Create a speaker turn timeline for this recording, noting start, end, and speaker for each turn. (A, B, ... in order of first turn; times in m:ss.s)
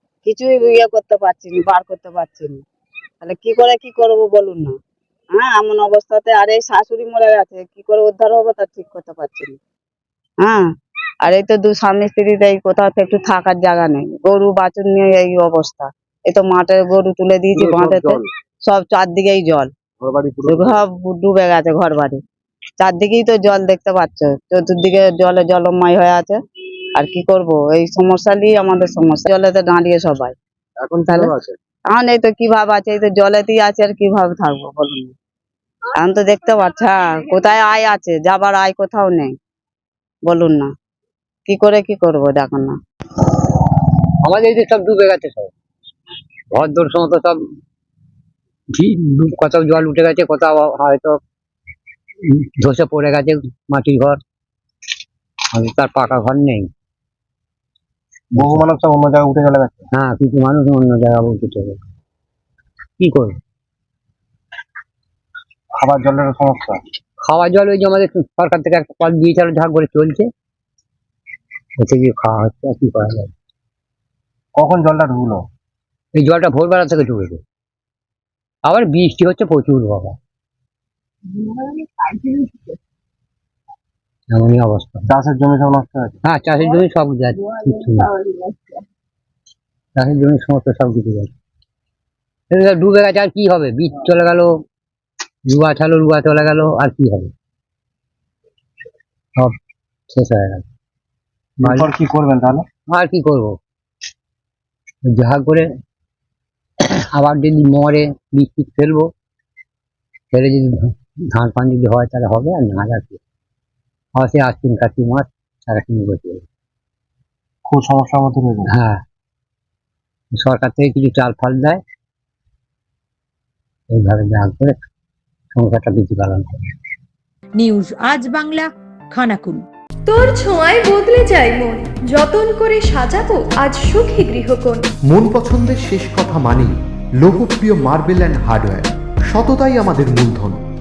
0:00.2-0:02.6 A
0:03.2-0:04.8 A
0:05.4-0:09.6 A
0:11.2-0:19.7 A
0:17.5-0:18.3 B
0:20.0-0:20.8 B
0:20.4-0:22.2 A
0:22.8-0:26.4 A
0:27.0-0:30.4 A
0:31.0-0:31.3 A
0:31.9-0:35.1 A
0:36.0-0:39.3 A
0:40.3-0:40.7 A
0:41.5-0:42.8 A
0:44.2-0:45.5 C
0:46.5-0:47.4 C
0:48.7-0:51.2 C
0:52.3-0:54.2 C
0:55.5-0:56.7 C
0:58.3-0:59.9 B
0:58.4-0:58.7 C
0:59.9-1:01.8 C
1:03.0-1:03.4 C
1:05.7-1:06.8 B
1:07.2-1:10.3 C
1:11.8-1:13.3 C
1:14.6-1:15.5 B
1:16.1-1:17.4 C
1:18.6-1:20.2 C
1:24.3-1:25.1 C
1:25.1-1:26.2 B
1:26.2-1:28.1 C
1:30.0-1:31.3 C
1:32.5-1:34.6 C
1:35.5-1:37.3 C
1:40.1-1:40.6 C
1:41.6-1:42.7 B
1:41.6-1:41.9 C
1:42.9-1:43.6 C
1:45.1-1:45.8 C
1:46.8-1:49.1 C
1:50.3-1:53.2 C
1:54.2-1:56.4 C
1:57.7-1:58.7 B
1:58.7-1:59.0 C
2:00.3-2:01.8 C
2:03.9-2:04.8 C
2:05.5-2:06.7 C
2:07.6-2:09.6 D
2:10.1-2:14.8 E
2:15.1-2:20.6 F